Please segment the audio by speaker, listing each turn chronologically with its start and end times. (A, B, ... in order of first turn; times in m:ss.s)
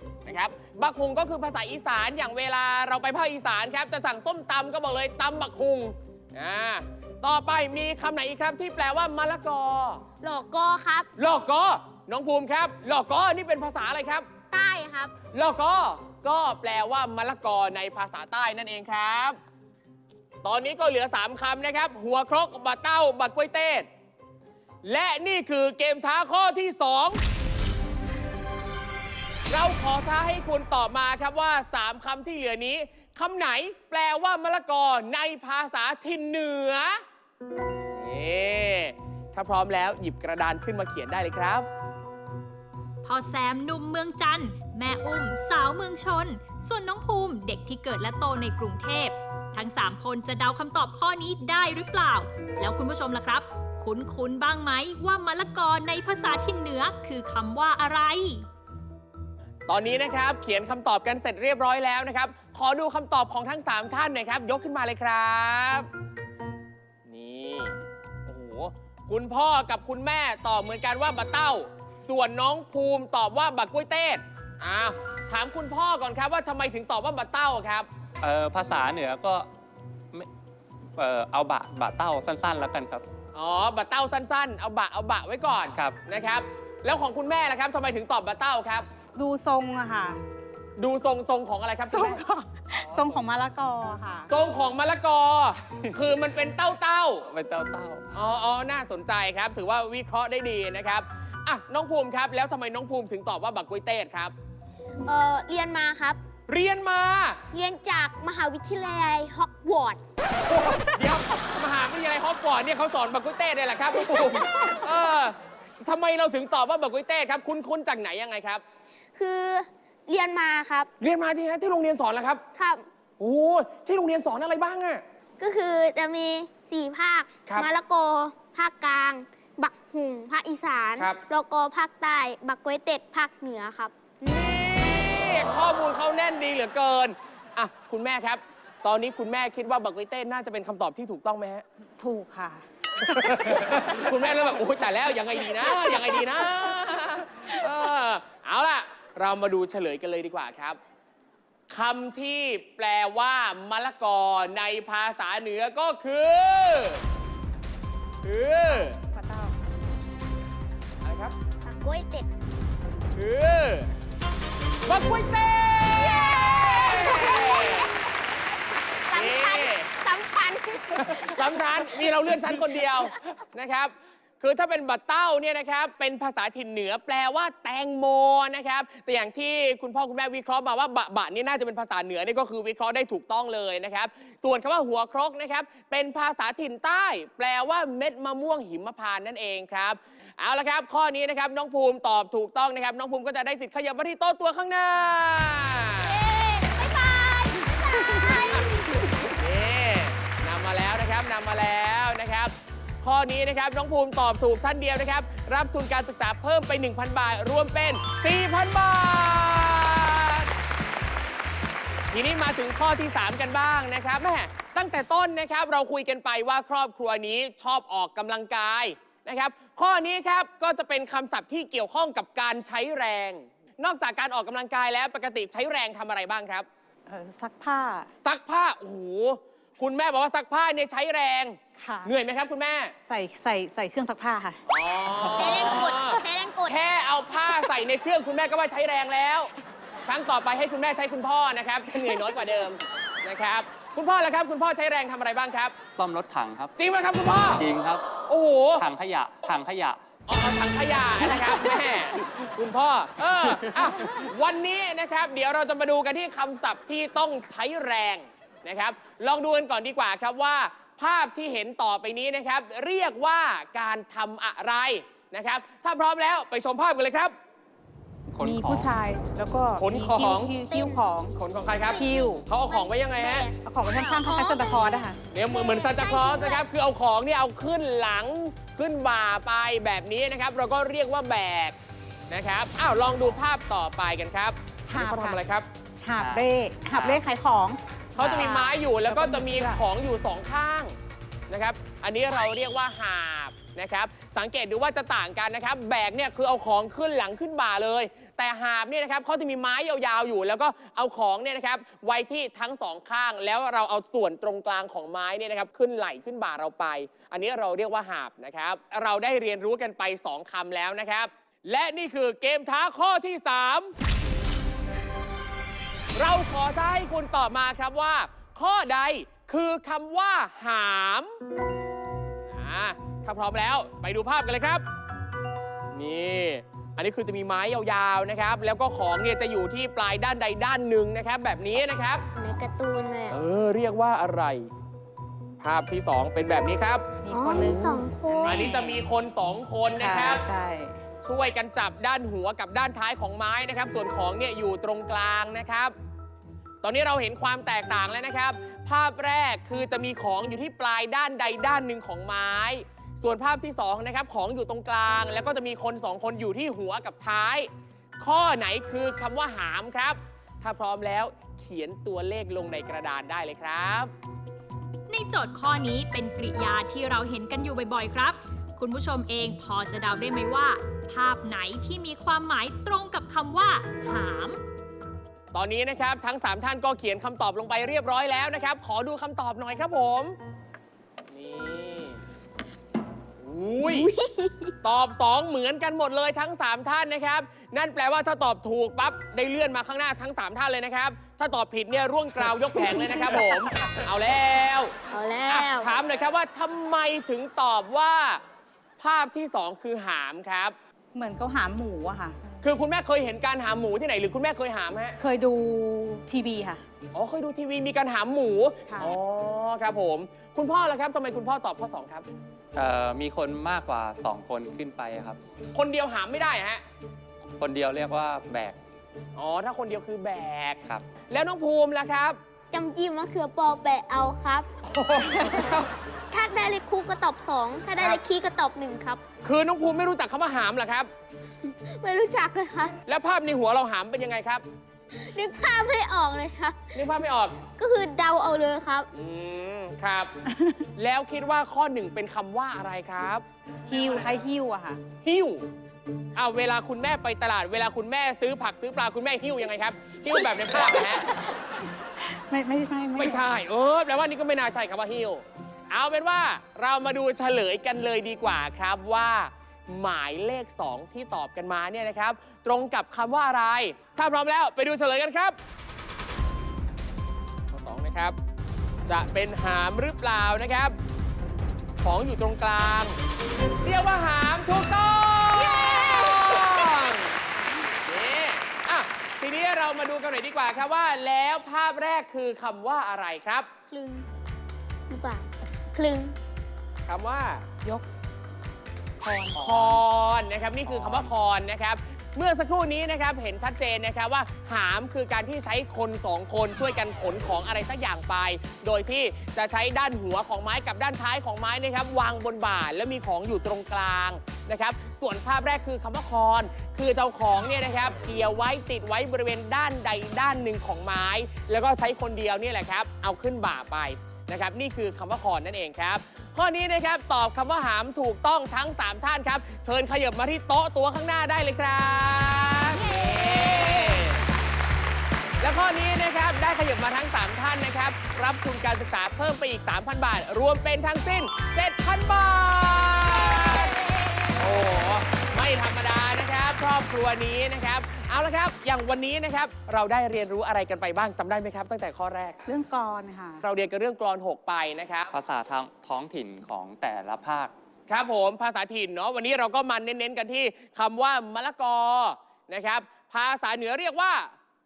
0:00.2-0:10.0 A
0:10.2-0:11.1 B
0:11.2-0:14.3 A
0:14.5-0:15.1 B
0:15.3-0:19.4 A
0:20.4-0:23.9 A
0:24.8-0:27.2 A
0:29.5-0:37.0 A
0:37.9-0:41.6 A
0:43.0-0:58.5 C
0:59.7-1:05.9 A
1:07.1-1:07.7 A
1:08.3-1:17.9 A
1:18.2-1:19.5 D
1:21.0-1:23.0 D
1:23.3-1:28.9 A
1:29.1-1:30.2 E
1:30.8-1:32.2 A
1:31.9-1:34.3 E
1:32.7-1:33.2 D
1:34.3-1:37.2 A
1:37.3-1:38.1 D
1:38.1-1:44.3 A
1:45.0-1:46.2 B
1:46.5-1:47.4 A
1:47.5-1:50.0 B
1:50.5-1:58.6 A
1:53.9-1:54.8 B
1:59.2-2:00.9 B
2:01.0-2:02.4 A
2:02.5-2:02.8 B
2:03.2-2:05.0 A
2:05.4-2:13.9 B
2:11.0-2:11.2 A
2:14.2-2:21.6 A
2:22.0-2:23.2 E
2:23.1-2:30.8 A
2:31.7-2:37.0 A
2:38.2-2:39.0 A
2:38.7-2:39.5 E
2:41.0-2:41.3 A
2:41.6-2:42.3 B
2:43.2-2:43.9 A
2:44.8-2:47.9 A
2:45.9-2:47.9 B
2:49.1-2:53.1 B
2:49.1-2:49.9 A
2:51.0-3:16.2 A
3:16.0-3:19.1 B
3:18.2-3:18.7 A
3:19.3-3:30.5 A
3:32.1-3:46.7 A
3:47.1-3:48.1 E
3:48.2-3:52.9 A
3:51.8-3:52.1 E
3:53.0-3:54.6 E
3:54.7-3:59.5 A
3:55.3-3:56.8 B
4:00.1-4:05.8 A
4:05.9-4:06.7 D
4:06.8-4:07.6 A
4:07.6-4:08.0 D
4:08.2-4:08.8 A
4:08.8-4:10.0 D
4:10.3-4:27.3 A
4:28.3-4:29.0 D
4:28.4-4:31.3 E
4:29.8-4:30.6 A
4:30.6-4:31.1 B
4:31.4-4:33.5 A
4:31.7-4:36.6 B
4:32.0-4:32.4 E
4:33.6-4:35.2 E
4:35.3-4:41.8 A
4:42.3-4:45.7 A
4:44.9-4:45.4 E
4:46.0-4:49.8 E
4:46.2-4:47.2 D
4:48.2-4:50.9 A
4:48.2-4:48.5 D
4:51.5-5:13.9 A
5:16.1-5:21.4 A
5:22.5-5:24.8 A
5:25.9-5:32.2 A
5:32.4-5:33.3 B
5:33.3-5:34.7 A
5:35.6-5:37.1 A
5:37.2-5:38.0 E
5:37.3-5:38.8 B
5:38.4-5:40.4 A
5:38.6-5:39.0 E
5:39.9-5:41.0 E
5:41.2-5:45.9 A
5:46.8-5:57.7 A
5:58.2-6:04.1 A
6:05.1-6:14.6 C
6:15.5-6:20.4 A
6:21.3-6:22.2 A
6:23.4-6:24.1 A
6:23.8-6:24.7 B
6:24.8-6:38.4 A
6:32.8-6:33.5 B
6:35.1-6:36.0 B
6:39.0-6:40.8 A
6:41.1-6:42.4 E
6:42.6-6:45.2 A
6:45.2-6:46.8 E
6:47.1-6:52.2 A
6:48.9-6:49.2 E
6:52.8-6:55.4 D
6:55.7-6:56.8 A
6:57.6-6:58.8 D
6:59.4-7:02.4 A
7:02.7-7:04.7 B
7:04.8-7:05.9 A
7:06.3-7:09.2 B
7:09.4-7:11.1 A
7:11.6-7:13.0 B
7:13.1-7:14.6 A
7:15.1-7:17.0 B
7:16.9-7:17.6 A
7:17.6-7:19.1 B
7:19.1-7:20.3 A
7:21.0-7:23.4 A
7:23.9-7:25.0 E
7:25.2-7:25.6 A
7:26.4-7:31.3 A
7:32.5-7:33.4 E
7:33.2-7:45.6 A
7:47.7-7:48.4 A
7:49.1-7:51.0 A
7:52.0-7:53.2 A
7:53.8-7:57.3 A
7:55.5-7:56.9 B
7:58.0-8:03.7 A
8:03.9-8:04.3 B
8:05.1-8:06.4 B
8:07.1-8:07.6 A
8:09.2-8:10.0 E
8:09.6-8:44.4 A
8:10.9-8:11.2 D
8:42.8-8:44.4 B
8:45.6-9:02.7 A
9:02.7-9:03.6 E
9:03.6-9:05.3 A
9:05.3-9:07.7 D
9:08.1-9:14.5 A